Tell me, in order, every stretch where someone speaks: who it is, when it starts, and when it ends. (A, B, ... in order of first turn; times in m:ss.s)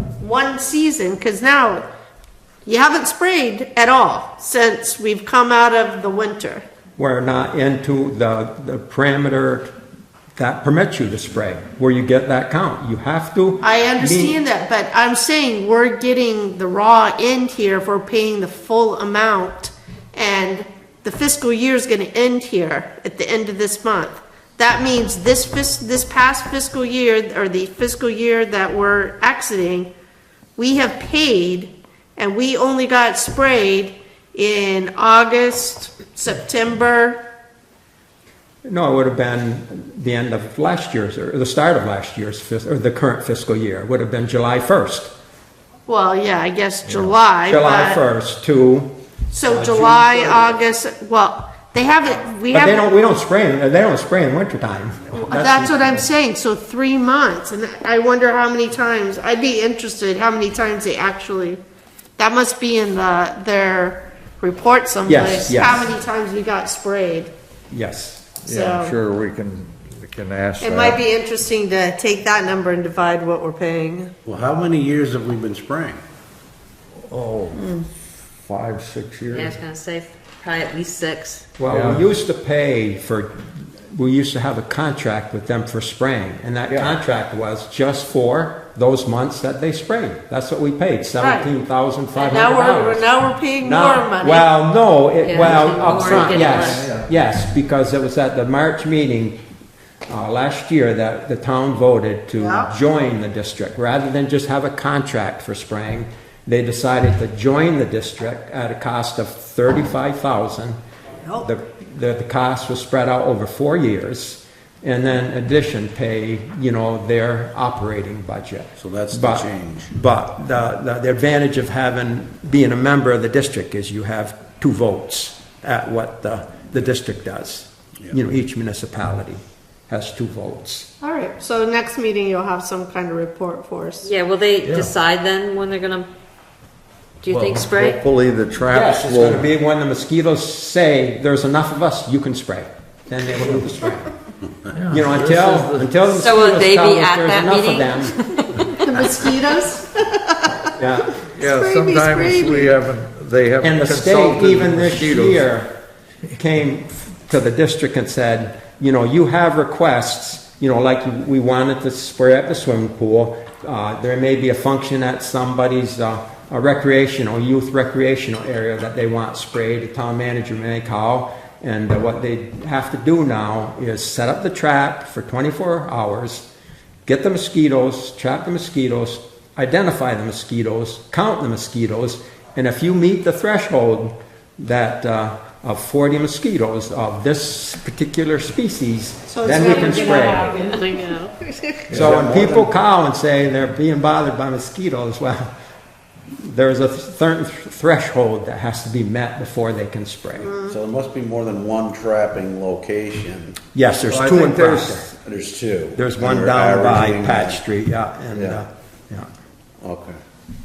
0:00.2-0:01.8 A
0:02.6-0:06.6 A
0:07.0-0:09.7 B
0:10.4-0:14.4 B
0:13.6-0:29.9 A
0:30.6-0:37.2 A
0:38.7-0:45.1 B
0:45.9-0:48.0 A
0:46.9-0:47.1 C
0:47.4-0:50.5 B
0:49.3-0:52.8 A
0:52.5-0:56.0 B
0:55.1-1:01.6 A
1:02.2-1:07.3 A
1:05.1-1:05.9 B
1:07.7-1:08.3 B
1:08.4-1:11.0 C
1:08.4-1:09.0 A
1:10.6-1:14.1 A
1:14.3-1:16.0 D
1:17.1-1:17.7 C
1:17.5-1:17.8 A
1:18.4-1:19.6 C
1:19.3-1:21.5 E
1:21.6-1:33.1 B
1:21.6-1:22.1 C
1:31.2-1:31.5 A
1:32.2-1:34.5 A
1:33.6-1:39.4 B
1:35.2-1:36.9 E
1:35.7-1:37.1 C
1:40.1-1:50.8 B
1:42.3-1:42.7 A
1:51.4-2:10.9 B
1:58.8-1:59.9 D
2:11.0-2:14.1 A
2:14.0-2:16.1 E
2:14.6-2:14.9 C
2:17.2-2:18.0 E
2:17.3-2:19.5 C
2:18.7-2:24.1 B
2:24.7-2:25.9 C
2:24.9-2:28.2 B
2:26.1-2:28.7 E
2:28.6-2:30.8 A
2:30.6-2:31.2 B
2:31.3-2:35.5 C
2:31.3-2:32.7 A
2:33.6-2:35.7 B
2:36.3-2:56.5 B
2:57.1-3:10.6 B
3:09.3-3:11.8 A
3:10.6-3:11.2 E
3:11.9-3:12.2 C
3:11.9-3:15.5 B
3:11.9-3:12.7 D
3:16.4-3:20.5 B
3:20.4-3:20.8 A
3:20.6-3:23.6 D
3:23.7-3:25.1 B
3:24.1-3:25.1 C
3:25.2-3:27.6 D
3:25.9-3:29.3 B
3:28.3-3:28.6 C
3:29.8-3:30.2 D